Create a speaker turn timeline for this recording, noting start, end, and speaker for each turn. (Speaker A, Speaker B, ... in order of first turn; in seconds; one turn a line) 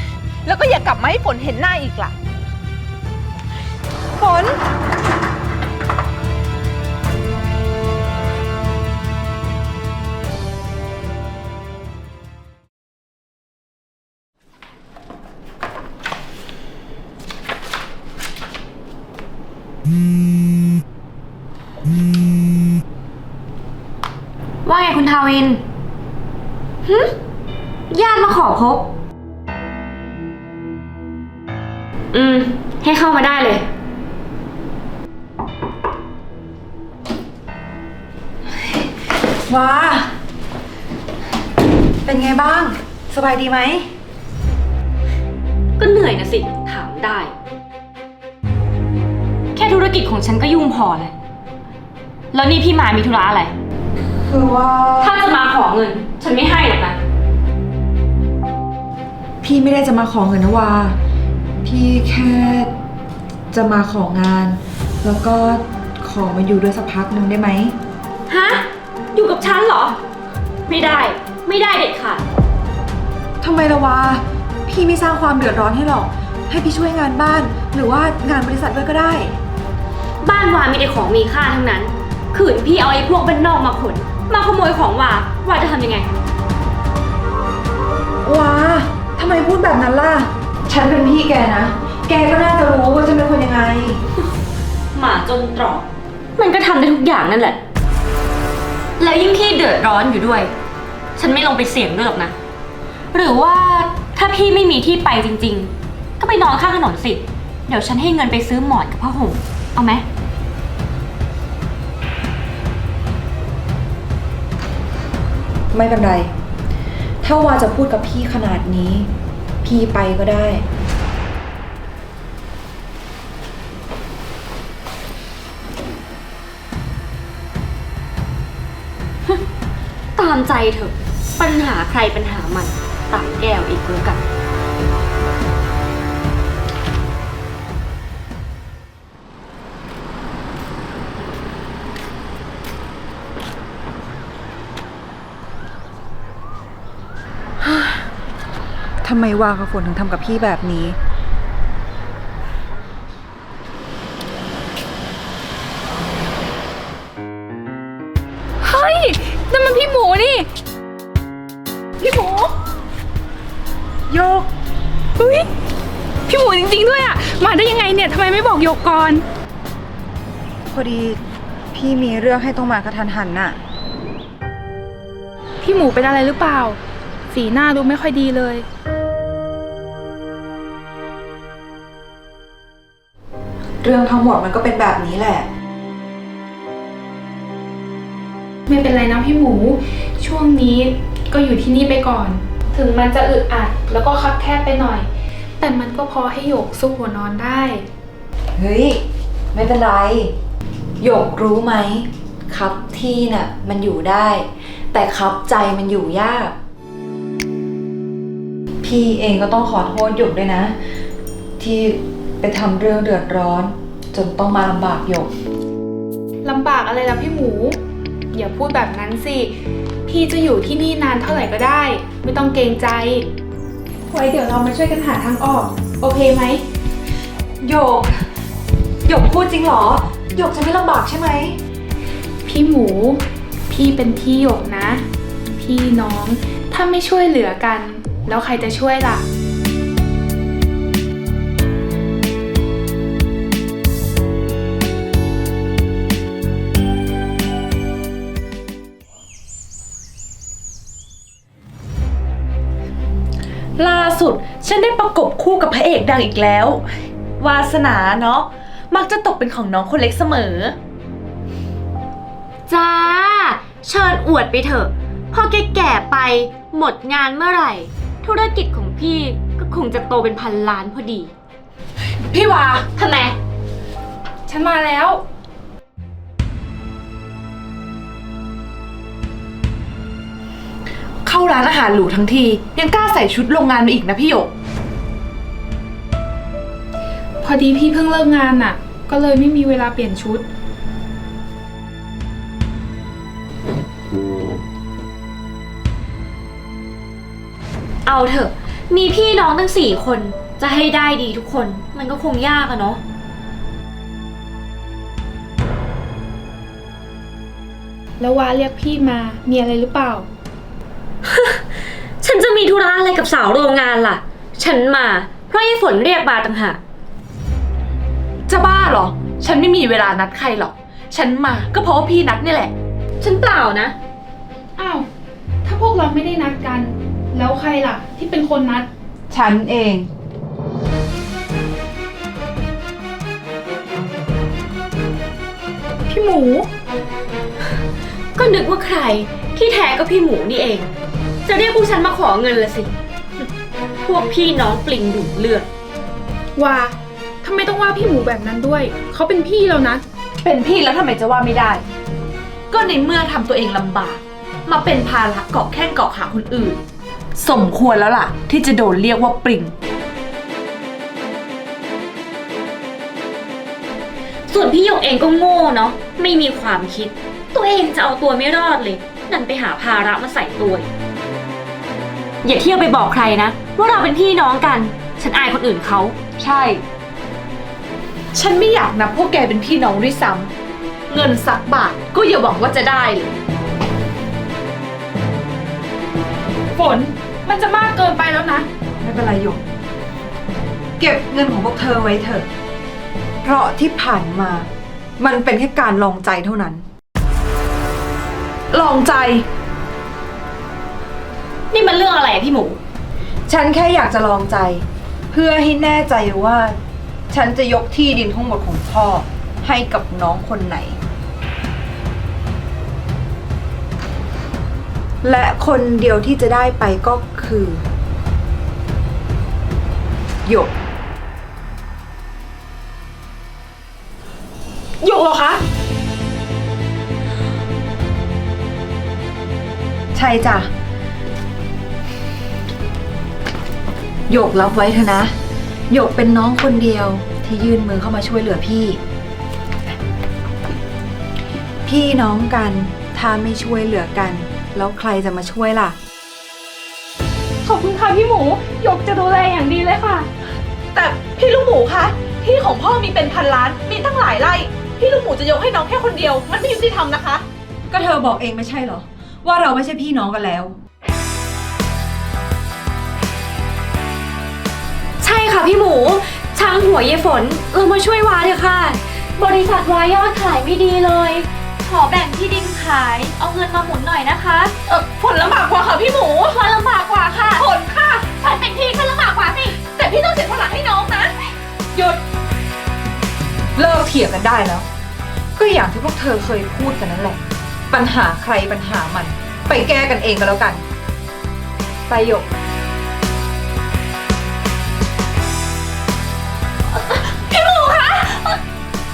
Speaker A: 0.4-2.1
Speaker B: 4.2-4.5
Speaker C: 24.6-25.6
Speaker C: 26.8-27.1
Speaker C: 27.9-28.9
Speaker C: 32.1-33.7
Speaker B: 39.5-40.1
Speaker B: 42.0-43.9
Speaker C: 45.8-47.3
Speaker C: 49.5-51.1
Speaker C: 52.3-53.5
Speaker B: 54.2-55.1
Speaker C: 55.0-57.0
Speaker B: 59.4-61.0
Speaker B: 61.6-62.7
Speaker B: 63.5-67.8
Speaker C: 68.3-70.0
Speaker C: 70.7-72.2
Speaker B: 73.4-79.4
Speaker C: 80.2-86.1
Speaker B: 88.2-94.0
Speaker C: 94.9-97.6
Speaker C: 99.0-100.5
Speaker C: 101.2-102.3
Speaker C: 103.1-110.0
Speaker B: 115.7-116.3
Speaker B: 117.2-119.1
Speaker B: 119.6-120.6
Speaker C: 130.2-134.2
Speaker B: 147.6-148.1
Speaker B: 149.0-151.0
Speaker D: 158.6-160.5
Speaker B: 164.1-164.5
Speaker D: 165.2-165.5
Speaker D: 166.3-169.2
Speaker B: 170.7-171.2
Speaker B: 171.7-173.6
Speaker D: 175.6-176.8
Speaker D: 177.3-178.7
Speaker B: 183.8-185.4
Speaker D: 188.7-195.1
Speaker D: 195.6-197.8
Speaker B: 198.6-200.3
Speaker B: 201.0-206.5
Speaker B: 208.8-210.7
Speaker B: 211.6-215.3
Speaker D: 216.4-217.8
Speaker D: 218.3-219.5
Speaker D: 220.1-223.3
Speaker D: 224.1-226.6
Speaker B: 227.6-228.2
Speaker B: 229.0-231.6
Speaker D: 232.4-239.2
Speaker E: 253.8-260.7
Speaker C: 262.7-271.3
Speaker E: 272.3-272.9
Speaker C: 272.9-273.4
Speaker D: 274.5-275.2
Speaker E: 281.2-284.5
Speaker D: 287.4-290.4
Speaker C: 298.1-303.0
Speaker D: 308.2-310.3
Speaker C: 311.2-311.6
Speaker C: 312.2-316.8
Speaker E: 318.5-322.7
Speaker C: 323.2-323.9
Speaker D: 324.8-325.1
Speaker D: 325.6-328.9
Speaker B: 329.3-330.1
Speaker D: 336.1-336.7
Speaker C: 338.4-340.9
Speaker C: 341.4-342.9
Speaker C: 344.1-345.7
Speaker D: 346.6-350.0
Speaker E: 350.4-351.8
Speaker E: 352.7-356.8
Speaker E: 357.4-359.7
Speaker C: 364.5-370.9
Speaker C: 372.4-376.8
Speaker E: 378.3-380.5
Speaker E: 381.1-383.3
Speaker D: 386.7-388.7
Speaker B: 389.0-389.6
Speaker B: 391.0-392.5
Speaker B: 393.4-394.7
Speaker B: 395.2-396.8
Speaker E: 398.7-399.3
Speaker B: 398.8-399.3
Speaker C: 401.7-402.8
Speaker B: 403.5-406.8
Speaker B: 407.3-411.0
Speaker B: 415.2-417.8
Speaker B: 420.4-420.8
Speaker E: 425.0-425.6
Speaker B: 430.1-430.7
Speaker B: 434.3-435.3
Speaker B: 435.9-439.0
Speaker B: 441.8-446.0
Speaker D: 447.6-450.3
Speaker A: 450.9-457.4
Speaker B: 457.9-460.8
Speaker C: 465.2-474.7
Speaker A: 474.9-476.5
Speaker C: 476.4-477.6
Speaker A: 477.6-478.3
Speaker C: 478.5-479.8
Speaker A: 479.8-481.3
Speaker B: 483.8-484.9
Speaker B: 485.6-490.8
Speaker B: 492.1-492.5
Speaker C: 497.1-498.5